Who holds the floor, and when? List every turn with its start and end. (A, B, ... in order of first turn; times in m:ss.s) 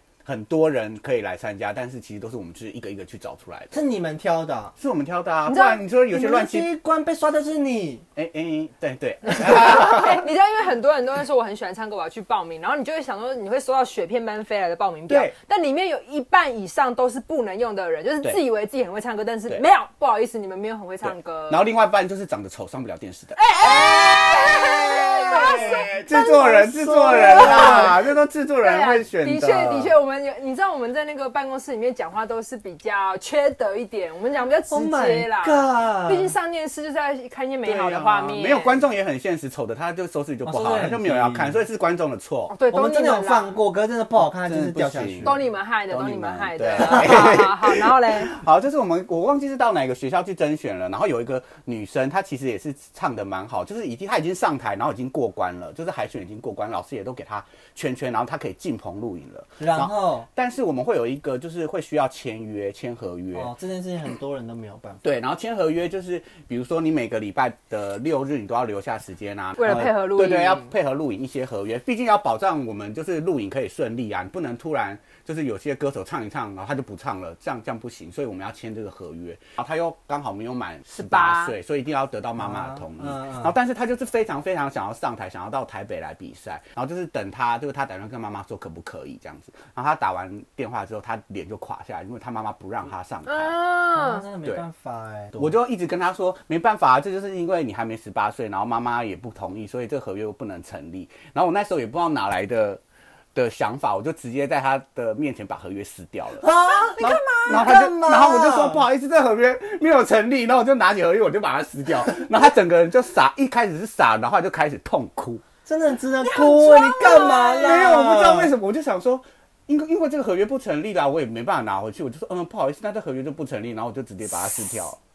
0:00.2-0:03.7 A
0:03.7-0:04.7 B
0:04.8-0:06.7 A
0:05.5-0:05.8 C
0:06.1-0:08.0 B
0:08.2-0:10.3 A
0:09.5-0:21.6 C
0:15.1-0:15.3 A
0:21.0-0:30.0 A
0:23.4-0:28.0 C
0:25.4-0:25.9 B
0:26.8-0:28.0 B
0:28.6-0:38.9 C
0:34.7-0:36.4 B
0:37.6-0:42.6 A
0:40.4-0:41.6 B
0:40.5-0:40.9 C
0:42.5-0:43.6 C
0:42.7-0:45.4 B
0:44.2-1:03.5 A
0:45.2-0:48.3 C
0:59.6-1:00.3 B
1:03.3-1:05.0 B
1:05.0-1:33.6 A
1:09.6-1:10.7 C
1:20.9-1:21.5 C
1:22.4-1:23.5 B
1:33.3-1:34.3 C
1:33.9-1:35.6 B
1:35.4-1:42.8 A
1:43.4-1:46.5 A
1:46.4-1:48.8 B
1:46.4-1:47.8 C
1:47.0-1:55.4 A
1:55.7-1:58.5 B
1:56.2-1:57.6 C
1:56.4-2:05.0 A